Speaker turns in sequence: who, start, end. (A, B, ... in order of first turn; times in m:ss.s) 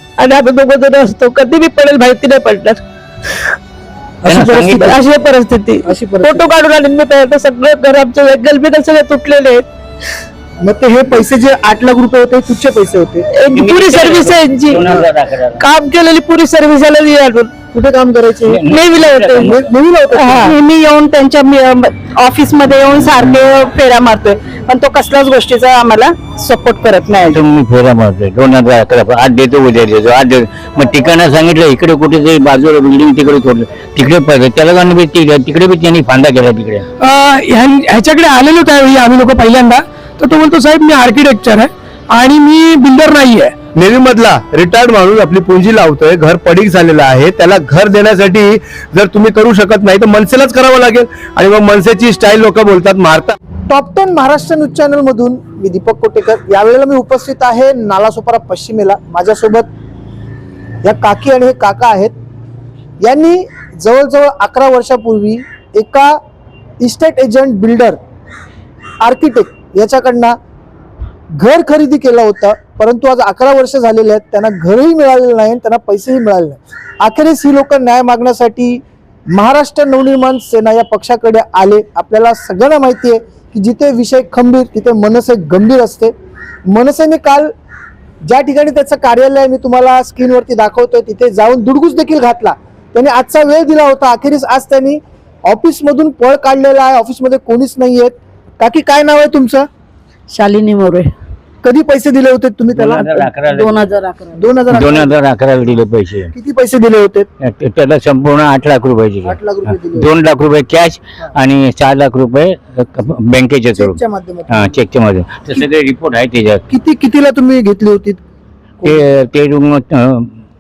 0:00.2-0:02.8 A
0:04.2-0:05.0 B
0:04.3-0:04.9 C
0:04.8-0:09.7 A
0:05.8-0:06.4 B
0:10.6-0:13.3 B
0:13.3-0:14.8 A
0:13.5-0:15.7 C
0:15.6-0:17.5 A
0:17.7-0:18.6 B
0:18.5-0:19.7 C
0:18.8-0:19.5 A
0:19.4-0:20.5 B
0:20.2-0:20.5 A
0:20.4-0:27.4 D
0:27.3-0:36.8 C
0:37.0-0:43.6 E
0:43.8-0:53.4 F
0:53.7-0:59.7 B
1:00.8-1:02.2 B
1:03.0-1:06.2 B
1:06.8-1:08.0 B
1:09.0-1:10.4 B
1:11.3-1:26.1 B
1:26.7-1:27.5 B
1:28.2-1:39.7 B
1:40.3-1:41.1 A
1:41.6-1:43.3 B
1:42.8-1:44.0 C
1:43.6-1:44.4 A
1:44.4-1:45.2 B
1:44.7-1:46.3 C
1:46.3-1:47.3 B
1:47.4-1:49.4 C
1:49.2-1:50.1 B
1:50.0-1:56.6 C
1:53.8-1:54.8 B
1:56.7-1:58.2 B
1:58.8-2:00.3 C